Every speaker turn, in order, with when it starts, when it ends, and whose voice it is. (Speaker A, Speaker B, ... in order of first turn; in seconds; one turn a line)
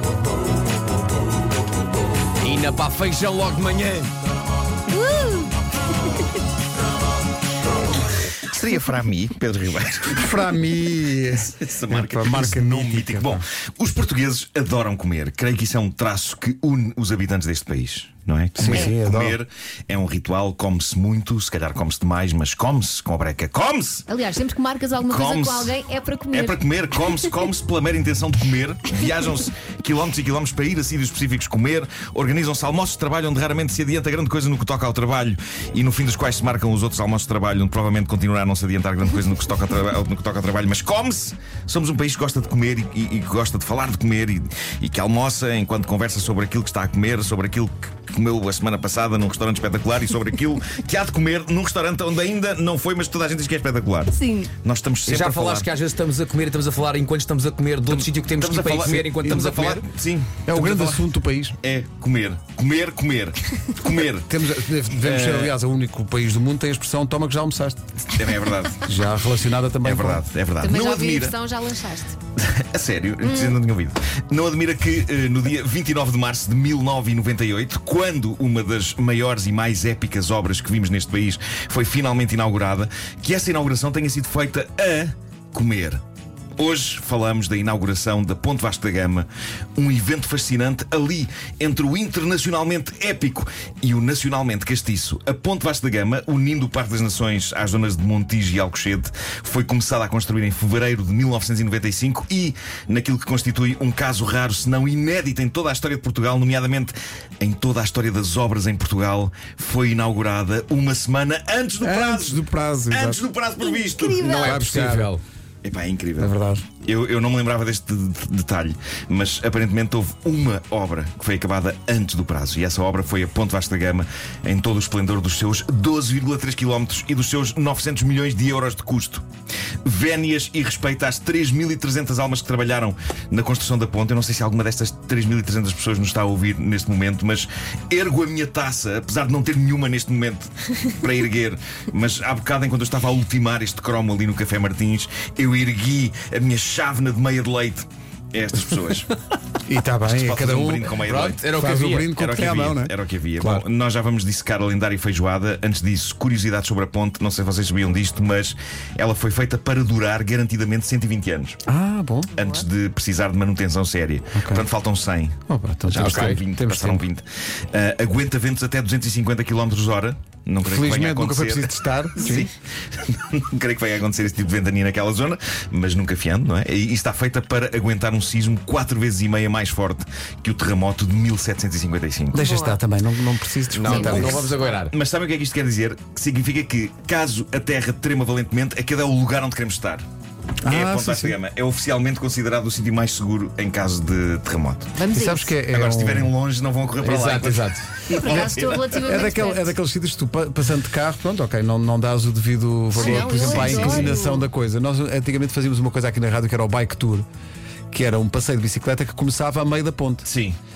Speaker A: 2.4-4.1
Speaker B: 4.9-5.5
Speaker C: 8.5-10.4
Speaker D: 10.1-13.4
Speaker C: 11.4-24.1
Speaker D: 18.6-19.4
Speaker B: 18.6-18.9
Speaker B: 24.1-27.3
Speaker C: 25.0-25.8
Speaker C: 26.3-55.7
Speaker B: 54.1-54.5
Speaker A: 55.0-59.8
Speaker C: 57.9-61.0
Speaker D: 59.0-59.5
Speaker D: 60.4-61.6
Speaker C: 61.6-64.3
Speaker D: 64.2-67.8
Speaker C: 64.9-65.5
Speaker C: 68.1-68.9
Speaker D: 68.8-70.2
Speaker C: 69.8-71.3
Speaker B: 70.6-72.2
Speaker C: 72.4-86.0
Speaker B: 73.2-73.6
Speaker C: 86.6-114.5
Speaker D: 111.8-113.2
Speaker B: 113.6-114.6
Speaker A: 114.2-115.2
Speaker D: 114.4-115.1
Speaker C: 115.6-129.2
Speaker D: 116.2-116.7
Speaker C: 129.8-149.1
Speaker D: 149.7-150.9
Speaker C: 150.1-151.5
Speaker A: 151.0-152.1
Speaker D: 151.5-153.6
Speaker C: 152.1-161.6
Speaker D: 161.7-162.3
Speaker C: 162.3-182.4
Speaker B: 162.4-162.6
Speaker D: 164.3-164.7
Speaker D: 165.5-167.0
Speaker A: 165.9-166.4
Speaker D: 170.6-172.5
Speaker D: 182.3-184.5
Speaker B: 182.4-182.8
Speaker A: 183.7-184.9
Speaker B: 183.9-184.6
Speaker C: 183.9-190.0
Speaker D: 190.6-191.4
Speaker C: 190.7-194.9
Speaker B: 194.9-195.6
Speaker D: 195.1-196.3
Speaker C: 195.7-199.2
Speaker A: 197.0-198.0
Speaker B: 198.1-199.8
Speaker D: 199.0-207.2
Speaker B: 202.9-204.5
Speaker C: 203.0-204.2
Speaker D: 207.9-210.3
Speaker C: 210.2-210.6